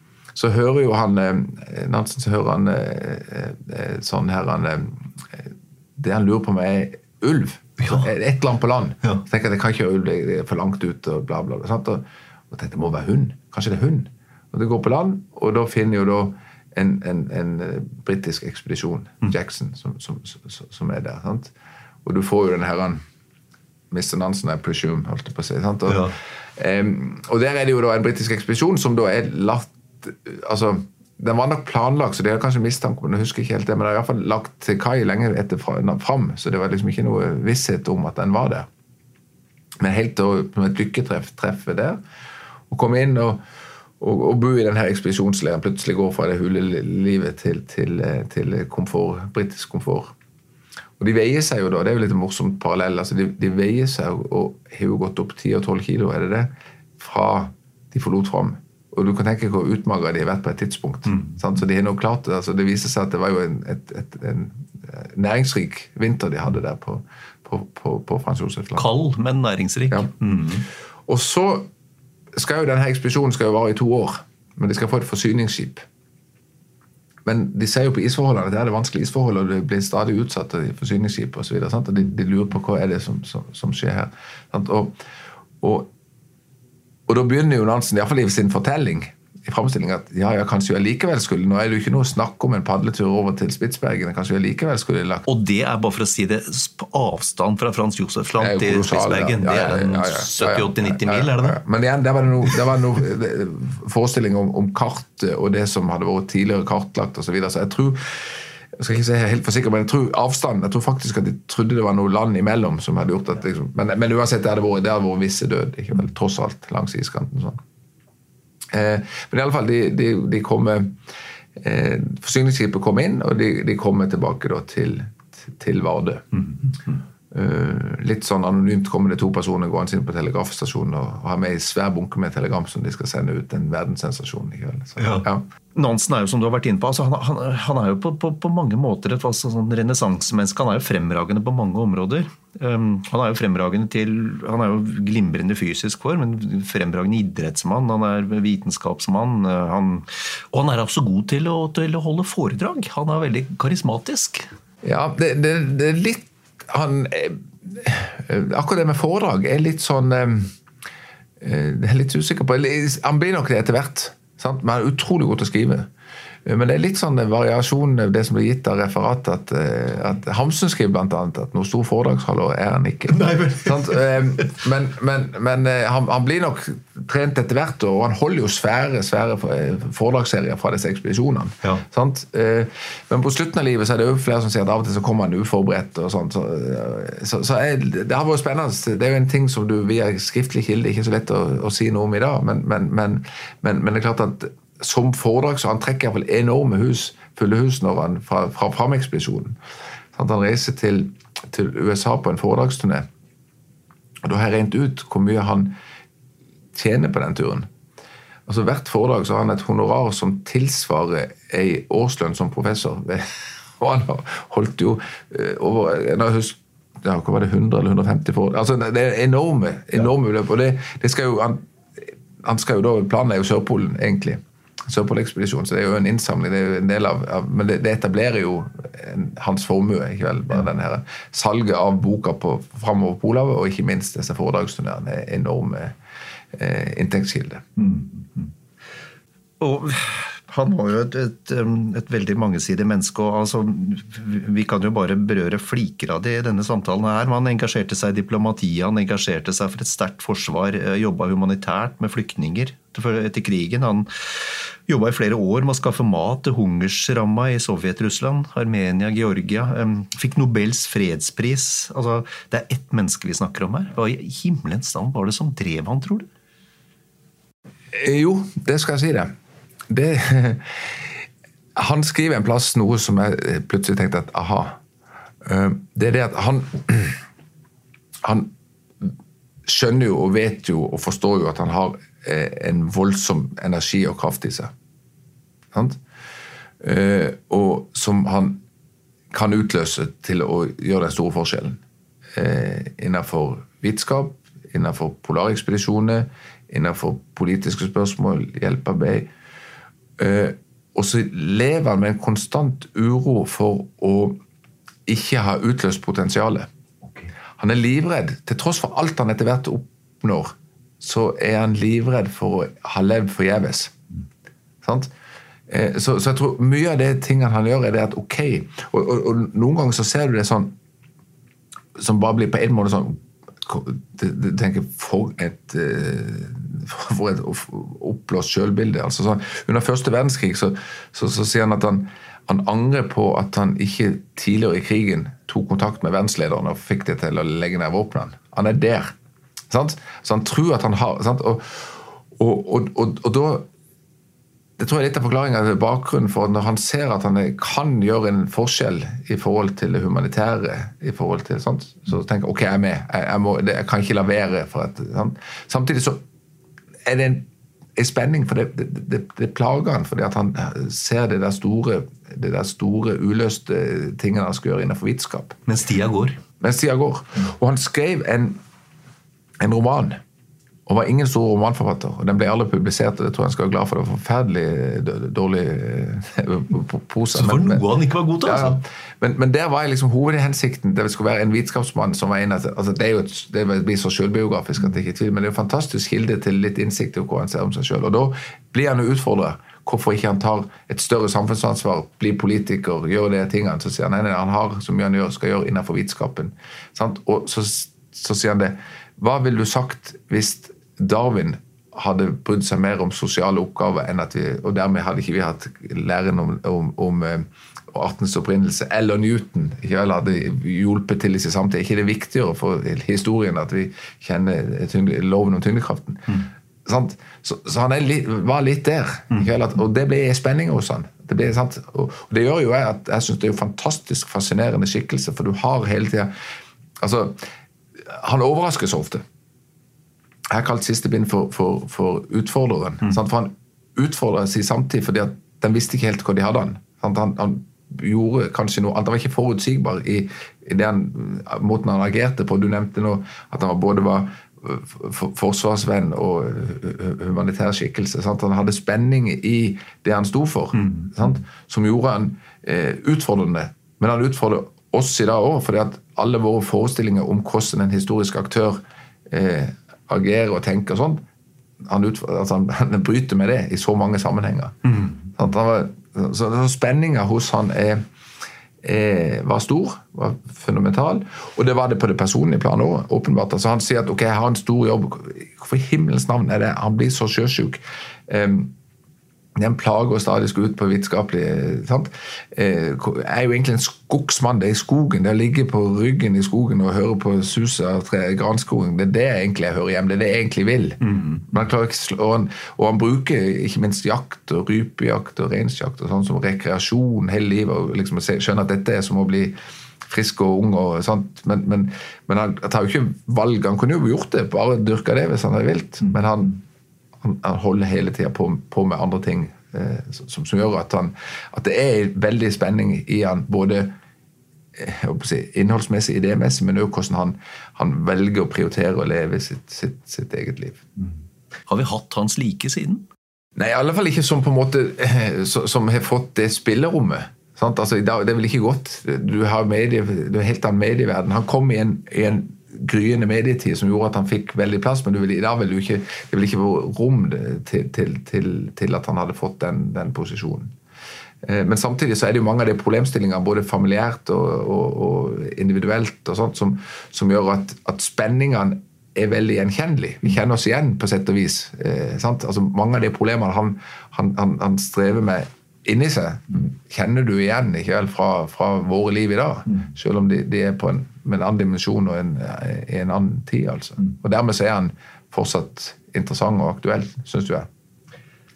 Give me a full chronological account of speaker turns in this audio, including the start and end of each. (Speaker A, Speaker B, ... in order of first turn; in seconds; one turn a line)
Speaker A: 0.3-21.5
Speaker B: 7.8-8.1
Speaker A: 22.0-23.0
Speaker A: 23.9-38.7
Speaker B: 25.9-26.1
Speaker A: 39.8-42.0
Speaker A: 42.7-43.4
Speaker A: 44.0-50.1
Speaker A: 51.0-68.9
Speaker B: 61.1-61.4
Speaker B: 68.8-70.7
Speaker A: 71.1-71.7
Speaker A: 72.3-75.8
Speaker A: 77.2-85.0
Speaker A: 85.6-85.9
Speaker A: 87.1-95.3
Speaker B: 95.3-101.6
Speaker A: 98.4-117.6
Speaker A: 118.7-121.0
Speaker A: 121.5-126.4
Speaker A: 127.3-135.4
Speaker B: 135.0-154.5
Speaker A: 154.8-160.5
Speaker A: 161.4-165.9
Speaker A: 166.4-199.6
Speaker B: 173.1-174.4
Speaker A: 200.1-203.1
Speaker A: 204.2-205.8
Speaker A: 206.7-207.7
Speaker A: 208.5-235.9
Speaker A: 236.5-237.7
Speaker B: 237.8-238.5
Speaker B: 239.6-254.1
Speaker B: 254.9-266.3
Speaker A: 267.9-269.3
Speaker A: 269.9-271.2
Speaker A: 271.7-274.8
Speaker A: 275.4-277.2
Speaker A: 278.2-279.1
Speaker A: 279.6-284.7
Speaker A: 285.7-286.0
Speaker A: 286.8-288.6
Speaker A: 289.3-291.8
Speaker A: 292.3-299.3
Speaker A: 300.2-304.4
Speaker A: 305.1-306.7
Speaker B: 307.0-307.3
Speaker A: 307.6-314.0
Speaker A: 314.8-315.1
Speaker A: 315.7-320.7
Speaker A: 321.9-339.1
Speaker A: 339.7-343.7
Speaker A: 344.8-356.2
Speaker A: 357.0-365.6
Speaker B: 365.7-366.4
Speaker A: 366.6-368.6
Speaker A: 369.6-370.2
Speaker A: 370.9-377.9
Speaker B: 377.3-378.8
Speaker A: 378.4-426.3
Speaker A: 427.0-427.4
Speaker A: 428.0-429.2
Speaker A: 430.5-461.2
Speaker A: 461.8-468.1
Speaker B: 464.9-465.2
Speaker A: 468.8-478.7
Speaker A: 479.6-506.6
Speaker B: 491.1-491.4
Speaker A: 507.2-513.9
Speaker A: 514.7-520.9
Speaker B: 521.7-523.0
Speaker A: 523.5-540.7
Speaker A: 541.4-567.7